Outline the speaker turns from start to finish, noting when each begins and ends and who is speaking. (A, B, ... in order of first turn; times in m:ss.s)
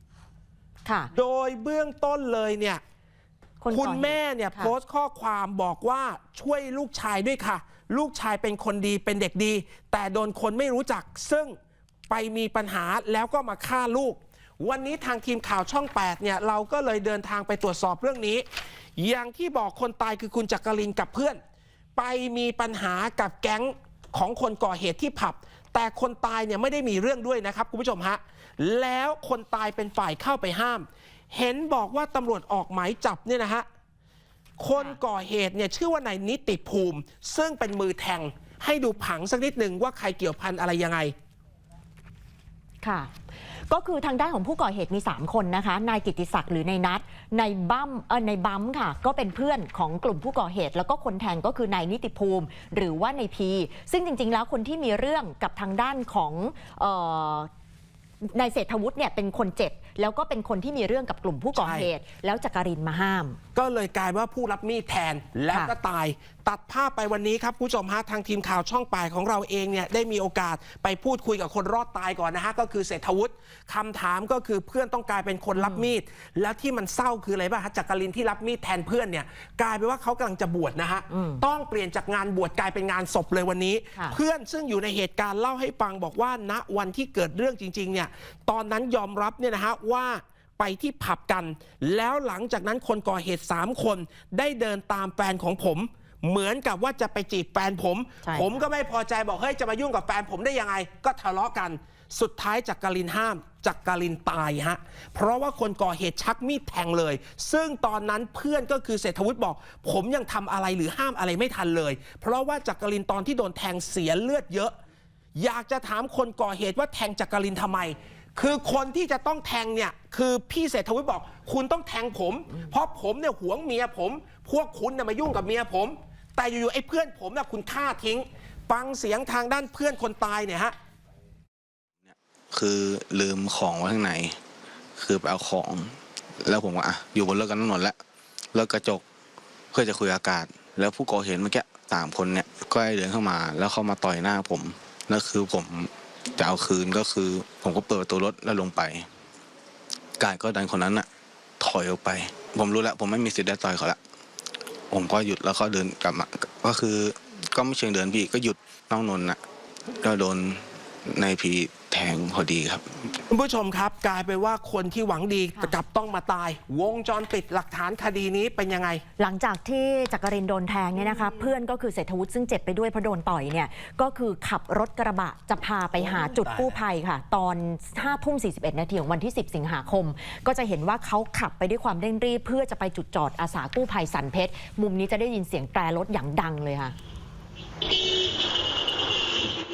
0:00.9-0:01.1 A
0:01.1-0:02.8 B
0:03.6-0:04.7 A
0:03.7-0:11.5 B
0:12.1-0:18.4 B
0:19.0-0:21.4 B
0:22.0-0:33.7 B
0:34.6-0:41.1 B
0:42.8-0:43.1 A
0:43.7-0:57.5 A
0:58.3-1:03.4 A
1:01.6-1:01.9 B
1:03.6-1:54.8 B
1:15.6-1:15.9 A
1:21.1-1:21.4 A
1:38.2-1:38.6 A
1:55.4-2:10.8 B
2:12.1-2:14.4 C
2:15.0-2:18.0 C
2:18.5-2:19.0 C
2:19.7-2:29.1 C
2:30.2-2:31.1 C
2:31.6-2:34.0 C
2:34.9-2:39.4 C
2:40.0-2:42.9 C
2:43.3-2:49.0 B
2:49.2-3:06.9 A
2:51.0-2:51.5 B
2:55.9-2:56.8 B